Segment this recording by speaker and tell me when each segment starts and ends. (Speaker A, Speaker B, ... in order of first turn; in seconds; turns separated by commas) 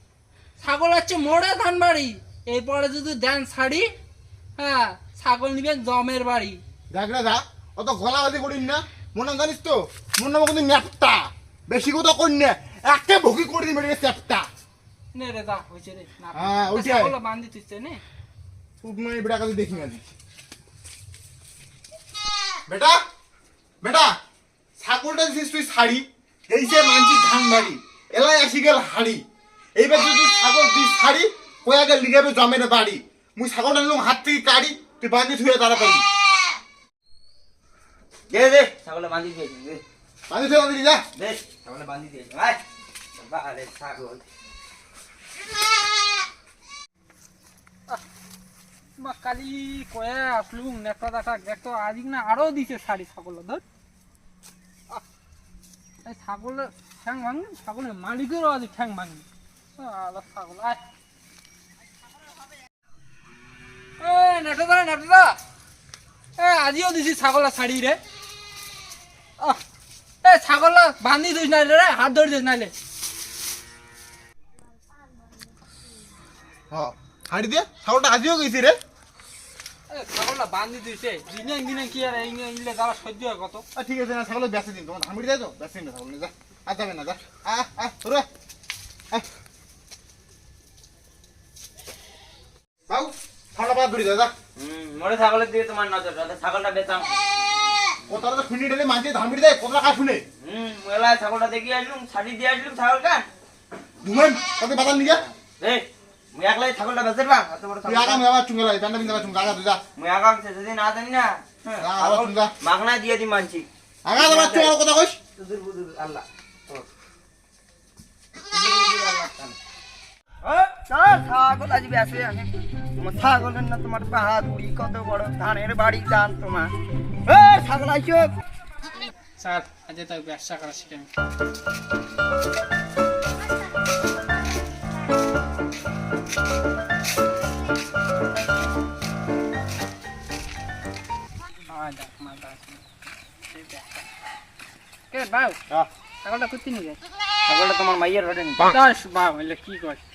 Speaker A: 0.6-3.9, Speaker A: 4.6-6.6, Speaker B: 6.9-14.4, Speaker A: 15.1-18.0, Speaker B: 16.3-17.1, Speaker B: 18.8-20.1, Speaker B: 22.7-23.0, Speaker B: 23.8-24.1, Speaker B: 24.8-29.2, Speaker B: 29.8-36.0, Speaker C: 38.3-39.8, Speaker B: 40.3-41.1, Speaker C: 41.2-42.6, Speaker C: 43.1-44.2, Speaker A: 49.0-53.6, Speaker A: 56.0-59.3, Speaker A: 59.8-60.8, Speaker A: 64.0-65.4, Speaker A: 66.4-68.0, Speaker A: 70.2-72.7, Speaker B: 76.7-78.8, Speaker A: 79.9-83.6, Speaker B: 83.7-88.3, Speaker B: 92.9-94.3, Speaker C: 94.6-97.1, Speaker B: 98.1-100.2, Speaker C: 100.4-103.3, Speaker B: 104.0-105.2, Speaker C: 105.3-108.3, Speaker B: 107.8-109.8, Speaker C: 109.0-109.3, Speaker C: 110.0-114.8, Speaker B: 111.8-112.5, Speaker B: 114.0-115.2, Speaker C: 115.4-116.9, Speaker C: 118.5-119.6, Speaker C: 120.4-126.7, Speaker C: 127.3-128.4, Speaker A: 129.4-131.1, Speaker A: 141.7-142.8, Speaker A: 143.5-144.1, Speaker A: 145.1-145.6, Speaker A: 146.2-147.0, Speaker C: 147.5-148.7, Speaker A: 148.7-150.0